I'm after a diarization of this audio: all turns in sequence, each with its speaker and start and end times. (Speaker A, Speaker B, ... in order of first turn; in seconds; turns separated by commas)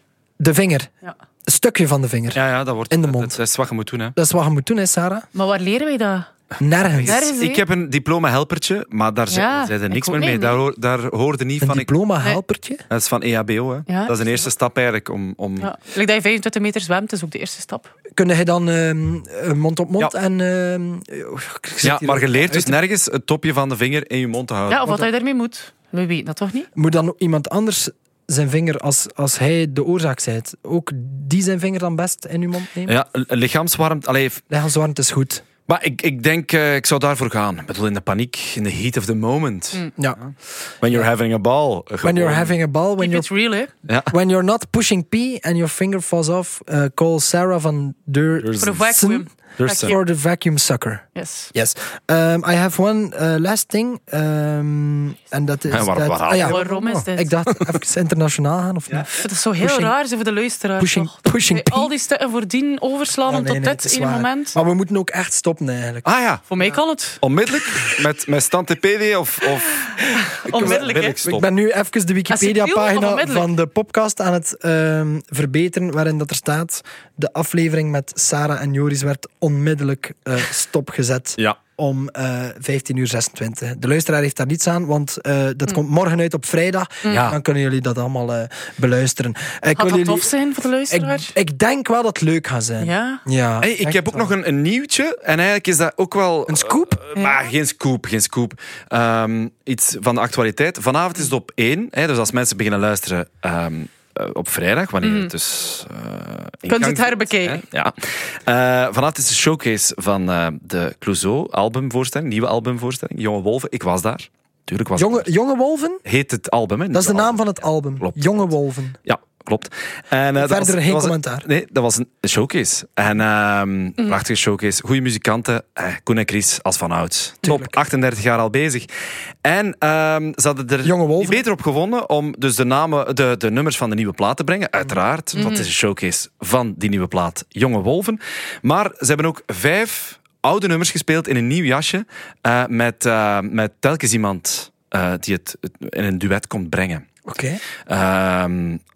Speaker A: 0.4-0.9, Speaker A: 1.5-3.4, Speaker B: 2.3-4.2, Speaker A: 4.2-5.3, Speaker C: 5.3-6.3, Speaker A: 6.6-7.2, Speaker B: 6.9-11.9, Speaker C: 7.0-7.6, Speaker C: 9.3-10.6, Speaker A: 11.6-12.8, Speaker B: 12.9-15.7, Speaker C: 13.9-14.4, Speaker C: 15.6-17.9, Speaker A: 18.1-22.8, Speaker B: 21.8-24.9, Speaker C: 24.7-26.7, Speaker A: 24.8-25.1, Speaker A: 26.8-33.0, Speaker B: 32.9-34.4, Speaker A: 34.5-35.5, Speaker B: 35.7-42.5, Speaker A: 42.0-43.3, Speaker C: 43.0-43.7, Speaker B: 43.9-44.1, Speaker A: 44.1-49.2, Speaker B: 48.4-48.8, Speaker C: 48.6-50.0, Speaker B: 49.6-50.0, Speaker A: 49.8-59.9, Speaker C: 51.1-51.5, Speaker B: 55.7-56.6, Speaker C: 56.4-57.3, Speaker C: 59.1-64.6, Speaker A: 60.8-61.9, Speaker A: 63.3-66.1, Speaker B: 66.0-66.5, Speaker C: 66.5-67.2, Speaker B: 67.2-69.9, Speaker C: 70.3-71.2, Speaker B: 70.5-71.5, Speaker A: 70.5-90.3, Speaker C: 72.3-73.5, Speaker C: 87.0-87.3, Speaker B: 87.1-87.4, Speaker C: 89.8-91.3, Speaker A: 90.9-94.3, Speaker C: 92.8-93.2, Speaker B: 93.6-115.3, Speaker A: 96.5-97.0, Speaker C: 97.2-97.5, Speaker C: 105.0-105.3, Speaker C: 106.7-107.6, Speaker A: 115.0-116.0, Speaker B: 116.0-118.4, Speaker A: 116.9-119.0, Speaker B: 119.0-128.9, Speaker A: 120.3-121.5, Speaker A: 127.4-127.8, Speaker B: 129.4-147.1, Speaker A: 130.8-131.4, Speaker C: 135.4-135.7, Speaker A: 147.3-147.6, Speaker B: 147.9-148.8